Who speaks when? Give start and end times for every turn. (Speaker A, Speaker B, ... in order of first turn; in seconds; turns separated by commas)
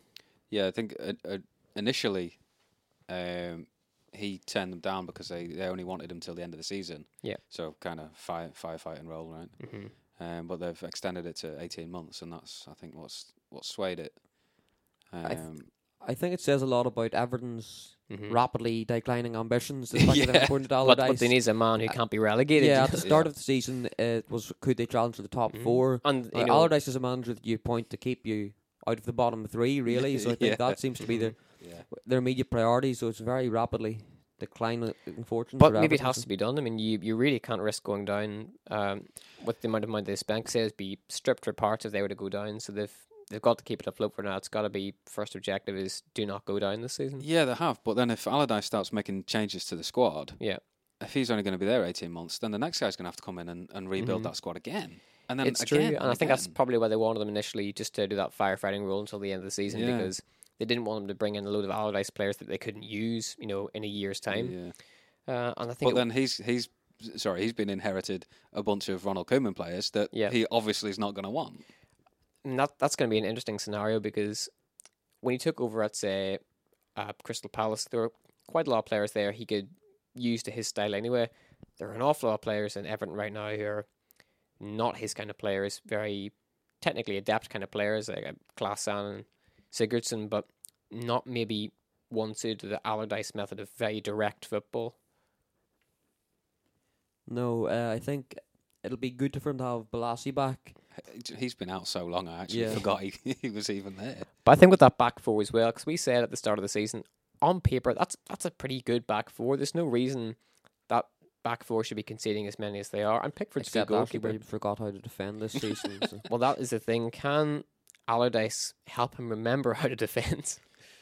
Speaker A: 0.5-2.5, Speaker A: 3.0-15.7, Speaker B: 9.6-9.9, Speaker C: 15.2-22.0, Speaker B: 18.1-18.4, Speaker A: 19.9-20.7, Speaker B: 20.8-23.1, Speaker C: 22.5-36.3, Speaker A: 23.0-23.3, Speaker B: 25.5-26.8, Speaker A: 29.9-31.9, Speaker B: 31.0-31.4, Speaker B: 35.6-47.3, Speaker A: 47.2-56.5, Speaker B: 54.0-54.3, Speaker B: 55.4-66.1, Speaker A: 59.7-60.1, Speaker A: 64.3-64.8, Speaker A: 65.8-71.7, Speaker B: 72.4-74.5, Speaker B: 75.2-76.4, Speaker B: 77.0-83.9, Speaker B: 84.5-95.0, Speaker C: 97.3-100.8, Speaker A: 100.9-104.3, Speaker C: 102.5-102.8, Speaker B: 104.4-114.4, Speaker C: 113.6-116.2, Speaker B: 116.3-120.9